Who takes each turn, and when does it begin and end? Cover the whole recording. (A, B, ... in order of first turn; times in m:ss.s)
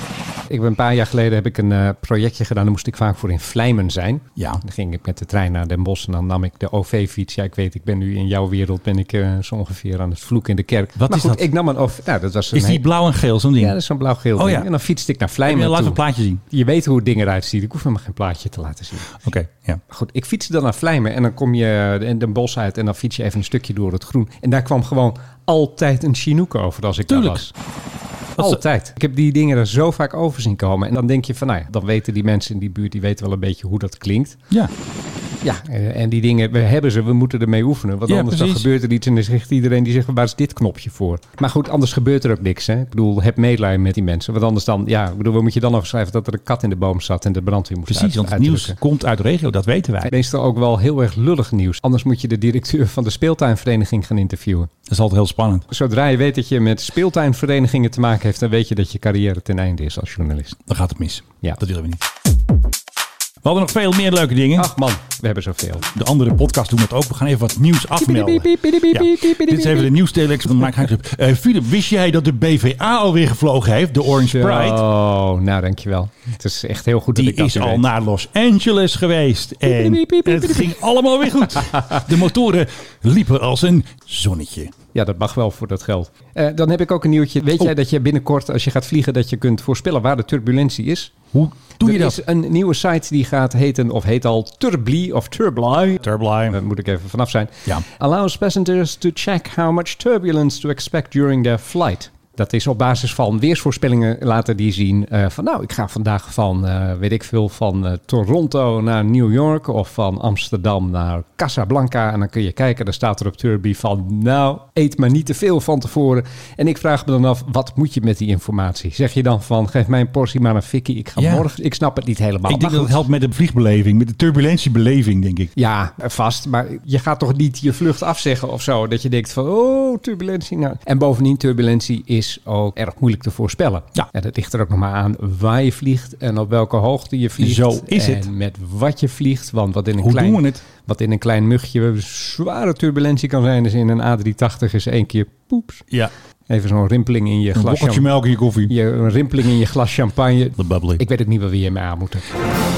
0:00.5-0:12.8 A
0:04.4-0:04.6 B
0:11.0-0:11.4 B
0:12.5-0:13.8 B
0:13.6-0:19.2 A
0:14.4-0:14.7 B
0:15.4-0:16.4 B
0:19.2-0:19.8 B
0:19.9-0:27.5 A
0:27.1-0:27.4 B
0:28.4-0:34.4 A
0:35.4-0:48.8 A
0:38.1-0:38.7 B
0:47.9-0:50.1 B
0:50.0-0:54.7 A
0:54.9-0:55.6 B
0:55.7-1:00.6 A
1:00.7-1:02.0 B
1:03.4-1:04.7 B
1:04.5-1:05.8 A
1:05.9-1:14.8 B
1:08.0-1:09.9 A
1:14.2-1:17.8 A
1:17.1-1:24.7 B
1:19.6-1:20.7 A
1:24.9-1:31.1 A
1:31.3-1:32.2 B
1:31.8-2:03.0 A
1:36.0-1:36.6 B
2:01.2-2:01.4 B
2:02.5-2:05.5 B
2:05.6-2:25.9 A
2:17.4-2:18.3 B
2:20.0-2:20.6 B
2:26.5-2:28.1 A
2:27.5-2:28.7 B
2:28.7-2:32.2 A
2:30.6-2:31.0 B